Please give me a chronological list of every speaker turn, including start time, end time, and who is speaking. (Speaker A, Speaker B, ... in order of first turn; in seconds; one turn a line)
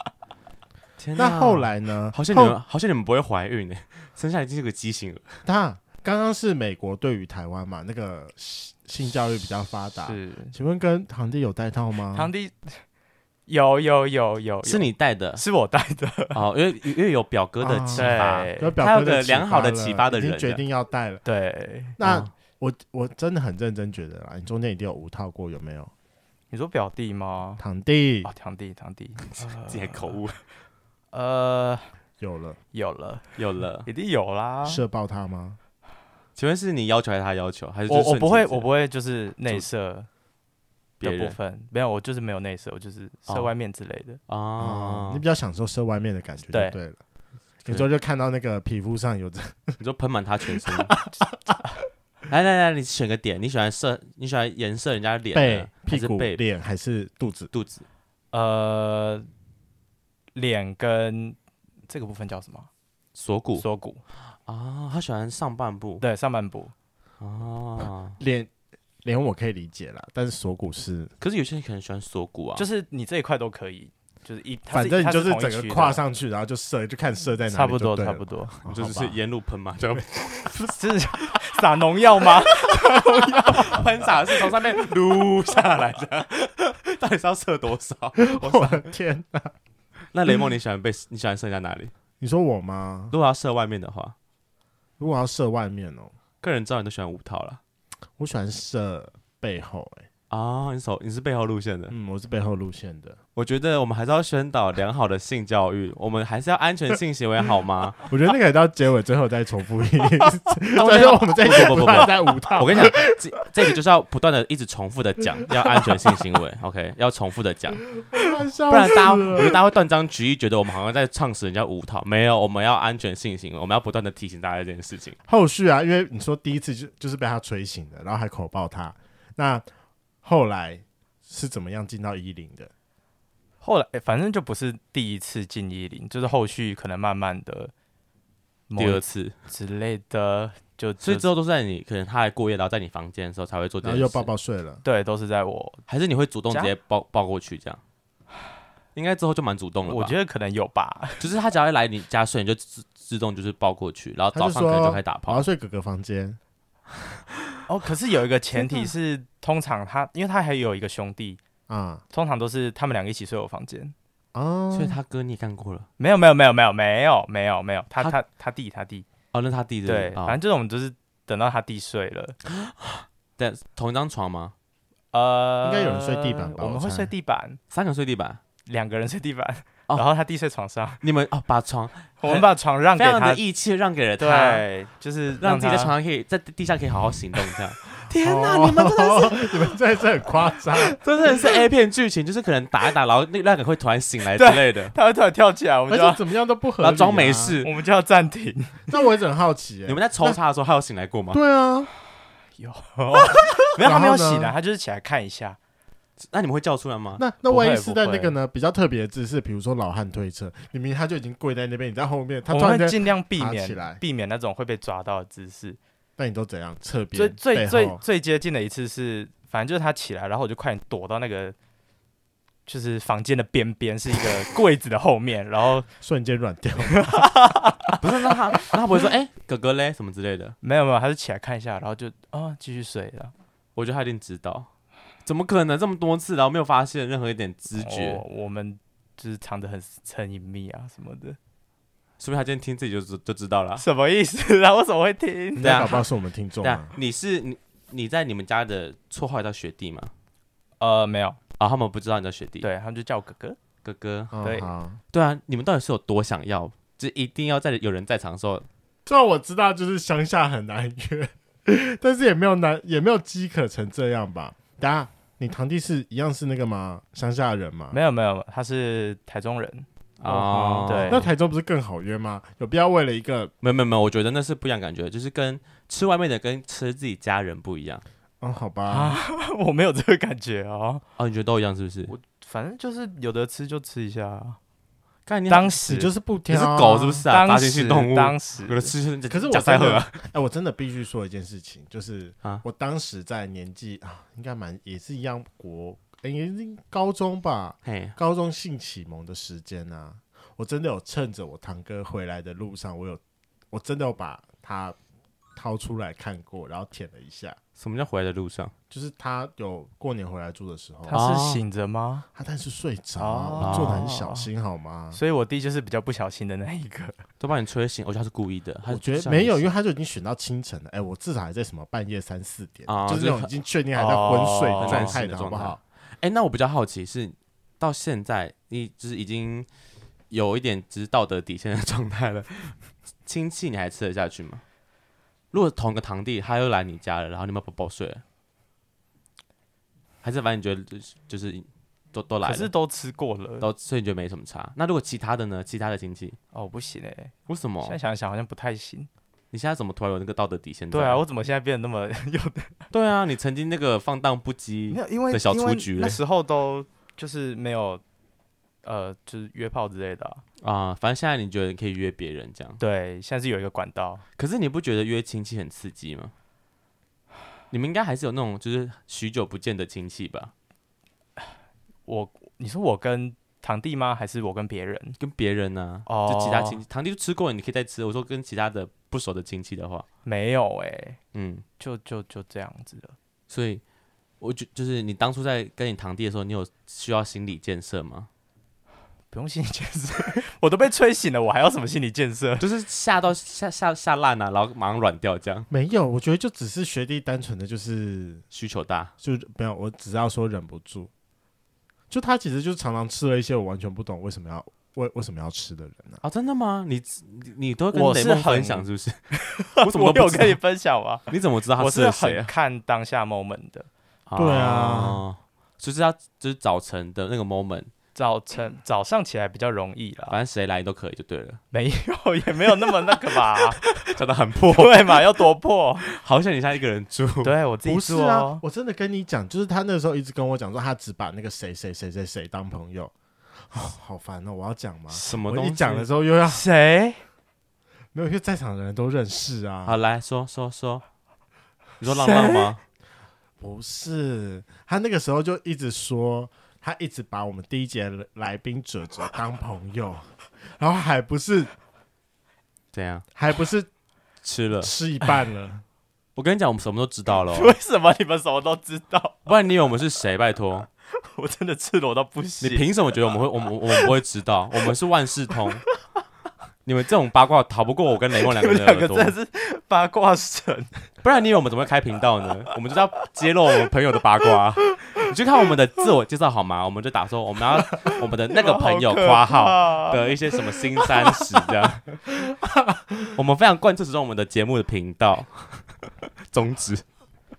Speaker A: 1.0-5.4
Speaker B: 1.2-2.6
Speaker B: 5.5-12.3
Speaker C: 10.0-10.5
Speaker C: 12.1-12.8
Speaker C: 13.5-16.4
Speaker A: 14.6-15.4
Speaker A: 16.3-20.6
Speaker B: 17.6-21.2
Speaker C: 18.0-18.8
Speaker C: 21.2-22.0
Speaker B: 22.0-25.9
Speaker A: 22.0-22.3
Speaker C: 26.5-27.6
Speaker B: 27.6-28.3
Speaker C: 28.2-30.2
Speaker A: 29.3-30.4
Speaker C: 31.1-31.9
Speaker B: 32.2-32.6
Speaker C: 32.7-34.8
Speaker A: 33.4-33.9
Speaker B: 34.6-35.6
Speaker A: 36.4-38.7
Speaker C: 37.9-40.1
Speaker A: 41.0-41.4
Speaker C: 41.0-44.2
Speaker A: 44.3-45.2
Speaker B: 44.6-47.0
Speaker C: 46.5-46.8
Speaker B: 47.6-49.8
Speaker A: 49.8-50.9
Speaker B: 50.6-51.6
Speaker A: 52.3-56.4
Speaker B: 55.3-57.5
Speaker A: 57.5-57.9
Speaker C: 58.3-59.3
Speaker C: 60.4-61.4
Speaker C: 61.9-62.7
Speaker A: 63.1-63.6
Speaker C: 63.6-64.0
Speaker A: 64.3-66.0
Speaker C: 66.0-66.7
Speaker A: 67.2-68.2
Speaker B: 67.8-68.5
Speaker B: 69.0-71.1
Speaker A: 71.2-72.7
Speaker C: 72.6-76.0
Speaker B: 74.7-79.2
Speaker C: 77.5-78.6
Speaker A: 78.7-80.8
Speaker C: 80.7-83.9
Speaker B: 83.0-83.6
Speaker A: 83.4-88.9
Speaker B: 88.2-89.5
Speaker A: 90.1-91.9
Speaker B: 92.2-93.1
Speaker A: 93.1-94.2
Speaker B: 95.0-96.1
Speaker A: 96.4-97.6
Speaker B: 98.2-100.1
Speaker A: 100.3-102.0
Speaker B: 101.9-103.2
Speaker A: 103.4-108.0
Speaker B: 108.1-113.0
Speaker A: 110.8-117.8
Speaker B: 118.1-119.6
Speaker A: 118.7-125.2
Speaker B: 125.3-129.7
Speaker B: 130.2-132.7
Speaker C: 133.6-137.7
Speaker C: 138.7-141.3
Speaker A: 138.8-139.3
Speaker A: 141.0-144.3
Speaker B: 143.8-144.8
Speaker C: 144.8-145.8
Speaker A: 145.9-147.8
Speaker A: 148.9-150.2
Speaker C: 149.9-151.3
Speaker A: 151.2-155.4
Speaker B: 154.3-156.4
Speaker C: 157.7-161.4
Speaker B: 161.7-162.0
Speaker C: 162.1-163.9
Speaker B: 164.3-165.0
Speaker A: 164.7-165.9
Speaker C: 166.0-169.1
Speaker A: 169.3-170.4
Speaker C: 169.9-172.4
Speaker A: 172.5-174.5
Speaker C: 175.1-177.6
Speaker B: 175.6-177.1
Speaker A: 177.7-178.4
Speaker C: 178.7-181.0
Speaker A: 181.0-184.7
Speaker C: 182.2-183.4
Speaker C: 184.2-185.9
Speaker A: 185.4-189.5
Speaker B: 188.2-191.0
Speaker A: 190.8-194.9
Speaker C: 194.3-196.2
Speaker B: 195.9-197.6
Speaker A: 196.8-197.7
Speaker C: 197.6-198.9
Speaker B: 198.9-200.4
Speaker A: 199.9-201.4
Speaker B: 201.3-201.9
Speaker C: 202.6-205.6
Speaker B: 203.8-204.6
Speaker A: 206.2-207.2
Speaker B: 207.2-214.0
Speaker C: 207.5-208.4
Speaker C: 212.5-215.8
Speaker B: 216.2-218.0
Speaker C: 217.1-221.6
Speaker C: 222.7-225.9
Speaker B: 226.0-227.2
Speaker C: 226.9-228.0
Speaker A: 228.0-230.6
Speaker C: 230.6-233.3
Speaker A: 233.8-234.7
Speaker A: 235.2-238.2
Speaker C: 237.8-241.4
Speaker A: 242.2-243.8
Speaker C: 243.8-246.0
Speaker B: 245.6-246.9
Speaker A: 245.6-246.0
Speaker A: 246.6-250.1
Speaker C: 250.8-251.4
Speaker A: 251.6-252.7
Speaker C: 252.6-253.6
Speaker A: 253.8-254.3
Speaker B: 254.3-255.0
Speaker C: 254.4-254.7
Speaker A: 255.1-258.7
Speaker B: 259.1-268.0
Speaker C: 267.9-271.3
Speaker A: 270.2-271.3
Speaker B: 271.0-273.5
Speaker A: 273.6-278.0
Speaker B: 278.4-279.2
Speaker C: 278.9-281.0
Speaker A: 281.2-282.1
Speaker C: 282.1-284.6
Speaker A: 285.3-285.9
Speaker C: 285.5-286.1
Speaker B: 285.9-287.2
Speaker A: 286.5-290.2
Speaker C: 287.3-288.9
Speaker B: 289.3-305.0
Speaker A: 297.9-298.2
Speaker B: 305.6-307.6
Speaker A: 307.8-308.7
Speaker B: 308.9-311.2
Speaker C: 311.1-312.3
Speaker A: 311.1-311.6
Speaker B: 312.4-315.2
Speaker C: 313.2-314.5
Speaker A: 313.6-314.1
Speaker C: 315.1-317.2
Speaker A: 317.4-319.7
Speaker B: 318.9-325.8
Speaker A: 322.9-323.5
Speaker C: 323.9-325.2
Speaker A: 324.8-329.7
Speaker A: 330.3-334.6
Speaker A: 335.5-338.2
Speaker A: 340.2-342.7
Speaker C: 342.4-343.7
Speaker A: 343.6-346.4
Speaker C: 346.5-349.1
Speaker A: 347.5-348.0
Speaker A: 349.5-351.2
Speaker C: 350.9-352.9
Speaker A: 352.9-356.2
Speaker C: 354.9-358.0
Speaker C: 358.8-360.4
Speaker A: 360.6-362.8
Speaker C: 362.8-364.2
Speaker A: 364.4-366.3
Speaker A: 367.7-370.5
Speaker C: 372.1-375.2
Speaker A: 375.2-380.1
Speaker C: 376.1-376.8
Speaker C: 380.2-381.2
Speaker A: 381.3-381.6
Speaker C: 381.8-383.2
Speaker A: 383.5-383.8
Speaker A: 384.4-388.3
Speaker C: 389.3-392.6
Speaker A: 392.6-395.7
Speaker B: 395.7-398.4
Speaker A: 398.5-399.1
Speaker B: 399.2-401.1
Speaker B: 402.1-406.2
Speaker A: 406.2-409.2
Speaker C: 407.9-413.9
Speaker A: 409.8-410.6
Speaker A: 411.3-412.5
Speaker A: 414.3-417.9
Speaker B: 414.4-415.2
Speaker C: 418.1-420.4
Speaker A: 420.3-421.6
Speaker C: 421.7-423.9
Speaker A: 423.1-425.3
Speaker C: 424.7-426.1
Speaker A: 426.0-427.5
Speaker C: 427.4-428.6
Speaker B: 427.9-433.1
Speaker B: 433.7-436.6
Speaker C: 435.1-435.4
Speaker A: 435.2-436.1
Speaker C: 436.4-437.2
Speaker B: 438.1-440.0
Speaker A: 439.9-441.1
Speaker A: 442.0-442.8
Speaker C: 442.1-442.7
Speaker B: 443.6-451.7
Speaker A: 452.9-453.2
Speaker B: 453.4-453.9
Speaker A: 454.4-454.9
Speaker B: 454.8-455.8
Speaker A: 456.4-457.8
Speaker C: 457.5-459.5
Speaker A: 459.5-460.9
Speaker C: 461.2-462.9
Speaker A: 462.6-465.8
Speaker A: 466.9-469.4
Speaker C: 468.4-470.9
Speaker A: 471.2-482.1
Speaker C: 477.9-480.2
Speaker C: 481.0-481.4
Speaker B: 482.4-483.2
Speaker A: 483.4-487.1